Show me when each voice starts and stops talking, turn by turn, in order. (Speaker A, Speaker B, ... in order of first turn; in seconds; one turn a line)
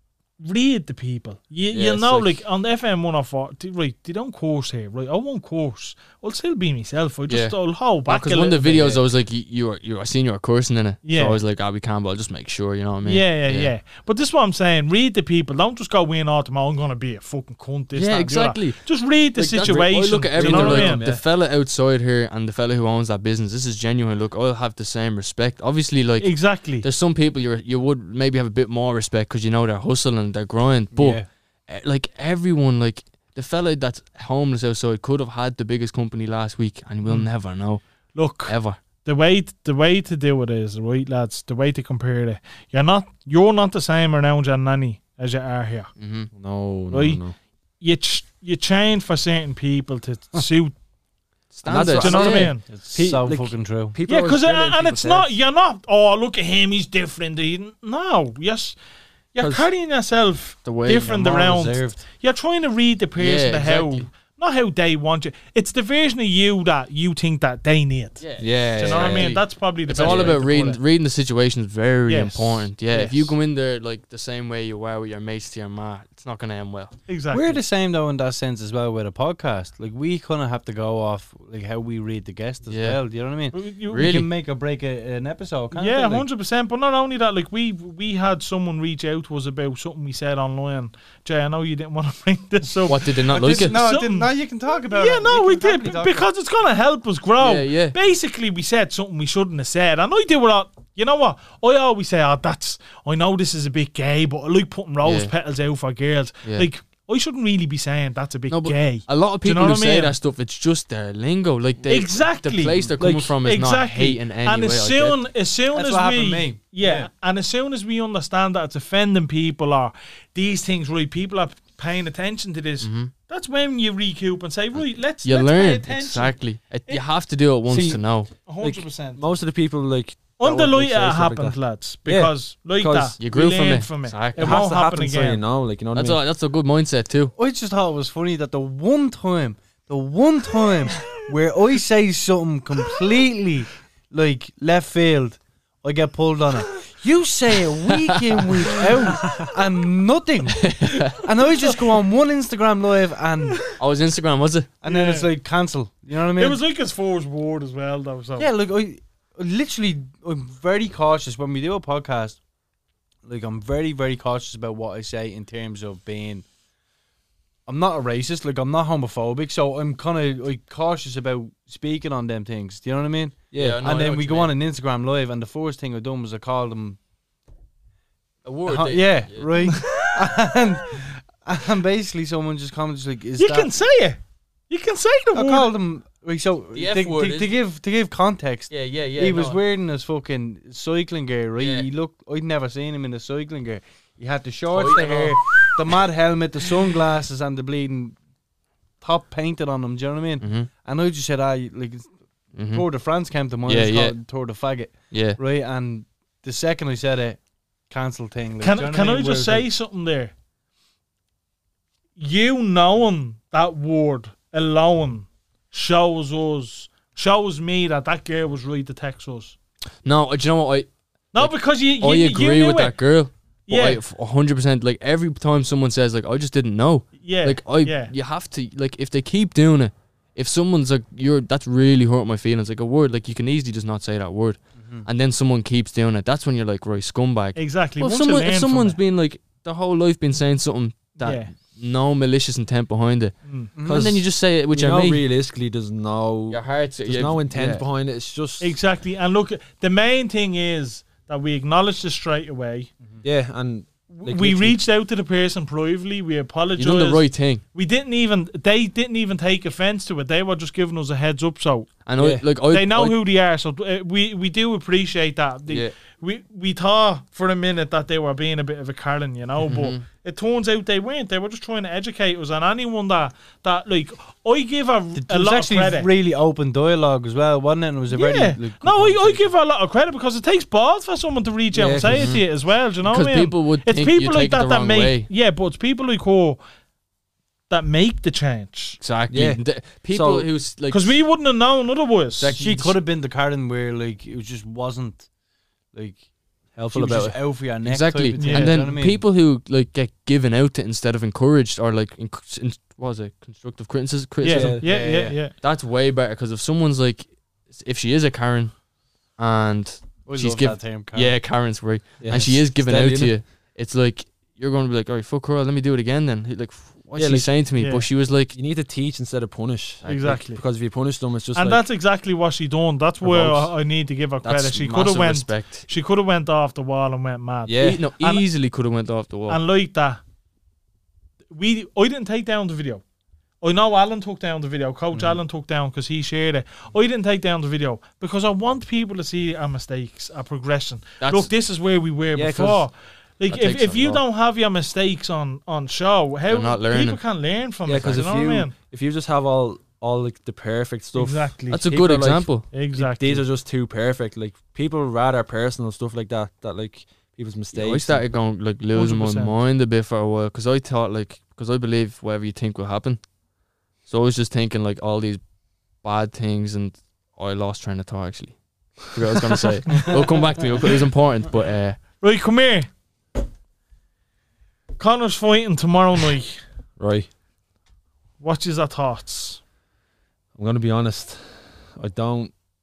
Speaker A: 0.4-9.0
Speaker B: 1.7-2.4
Speaker B: 7.3-13.7
Speaker A: 11.0-11.4
Speaker A: 13.0-21.0
Speaker B: 17.9-37.8
Speaker C: 19.6-21.2
Speaker A: 26.2-26.9
Speaker D: 30.9-31.2
Speaker A: 38.1-45.9
Speaker B: 38.4-38.8
Speaker B: 46.0-46.3
Speaker C: 46.3-47.3
Speaker A: 46.9-47.2
Speaker A: 47.8-50.7
Speaker B: 51.5-52.5
Speaker C: 51.6-55.3
Speaker A: 52.0-52.6
Speaker D: 52.7-53.9
Speaker A: 54.1-58.8
Speaker A: 59.3-70.8
Speaker C: 59.4-59.7
Speaker B: 60.6-61.2
Speaker D: 61.1-62.0
Speaker B: 63.1-64.1
Speaker B: 68.2-77.0
Speaker C: 68.4-70.4
Speaker A: 72.1-73.3
Speaker A: 77.1-77.6
Speaker D: 77.3-86.2
Speaker B: 82.7-83.0
Speaker A: 83.5-84.1
Speaker B: 83.9-84.3
Speaker A: 85.7-94.3
Speaker B: 92.8-93.8
Speaker D: 93.3-96.2
Speaker A: 94.9-110.1
Speaker B: 97.4-97.9
Speaker B: 105.0-105.3
Speaker B: 108.5-115.2
Speaker A: 111.9-112.9
Speaker C: 113.0-113.3
Speaker A: 113.4-127.0
Speaker D: 115.7-117.1
Speaker B: 122.8-123.1
Speaker B: 124.7-128.3
Speaker C: 127.7-133.2
Speaker A: 128.4-129.3
Speaker A: 130.4-135.4
Speaker B: 133.2-134.6
Speaker C: 134.4-136.2
Speaker B: 135.9-137.3
Speaker D: 137.4-153.7
Speaker B: 150.6-151.2
Speaker B: 153.8-154.7
Speaker D: 154.8-156.6
Speaker A: 154.8-155.3
Speaker A: 156.3-158.5
Speaker D: 158.4-162.4
Speaker D: 163.2-166.4
Speaker D: 167.7-177.0
Speaker C: 173.5-173.8
Speaker B: 173.5-174.5
Speaker B: 178.4-179.5
Speaker D: 178.7-183.7
Speaker A: 179.6-180.3
Speaker A: 183.4-185.7
Speaker D: 185.3-198.2
Speaker B: 186.7-187.6
Speaker B: 188.7-189.6
Speaker B: 191.6-191.9
Speaker B: 194.7-195.8
Speaker D: 199.0-209.7
Speaker B: 200.4-200.7
Speaker B: 202.5-202.8
Speaker B: 203.6-204.2
Speaker B: 205.1-205.4
Speaker A: 208.6-210.3
Speaker A: 212.2-219.6
Speaker B: 220.0-245.2
Speaker A: 221.3-223.0
Speaker A: 223.7-224.0
Speaker A: 227.2-228.1
Speaker D: 234.8-235.1
Speaker A: 237.6-239.0
Speaker A: 241.2-241.5
Speaker D: 243.8-244.1
Speaker C: 243.8-248.8
Speaker B: 246.5-247.8
Speaker A: 248.6-252.9
Speaker C: 253.2-254.8
Speaker A: 254.1-261.9
Speaker B: 256.8-257.6
Speaker B: 262.1-263.2
Speaker C: 262.2-262.4
Speaker A: 262.7-276.1
Speaker B: 269.6-270.0
Speaker D: 275.1-279.5
Speaker A: 278.1-286.6
Speaker C: 281.7-282.4
Speaker B: 282.0-282.4
Speaker B: 283.0-285.3
Speaker A: 287.7-289.0
Speaker B: 289.0-291.2
Speaker C: 289.3-290.5
Speaker A: 290.9-292.5
Speaker B: 292.4-293.0
Speaker D: 292.5-295.3
Speaker D: 295.9-296.2
Speaker C: 296.7-297.4
Speaker D: 296.8-299.2
Speaker B: 297.8-305.0
Speaker A: 298.4-298.8
Speaker A: 304.4-305.5
Speaker C: 304.5-304.8
Speaker D: 304.8-305.4
Speaker B: 305.6-308.8
Speaker B: 309.3-318.5
Speaker D: 310.2-311.3
Speaker C: 312.2-313.4
Speaker C: 317.1-317.7
Speaker A: 317.8-318.1
Speaker C: 318.5-321.8
Speaker A: 320.0-320.6
Speaker A: 321.5-328.4
Speaker C: 323.2-323.6
Speaker B: 324.4-325.9
Speaker C: 327.6-328.0
Speaker B: 327.8-329.6
Speaker A: 329.5-330.2
Speaker A: 331.5-333.0
Speaker A: 333.6-348.7
Speaker B: 341.2-341.5
Speaker C: 342.3-342.9
Speaker B: 343.5-344.2
Speaker B: 346.5-347.2
Speaker C: 347.8-358.2
Speaker A: 351.1-351.8
Speaker B: 351.7-352.7
Speaker A: 352.7-353.4
Speaker B: 357.7-363.2
Speaker A: 358.9-359.5
Speaker B: 364.0-365.4
Speaker B: 366.0-372.0
Speaker A: 372.2-372.9
Speaker A: 375.0-376.6
Speaker C: 377.0-377.3
Speaker A: 378.4-379.6
Speaker C: 380.5-382.5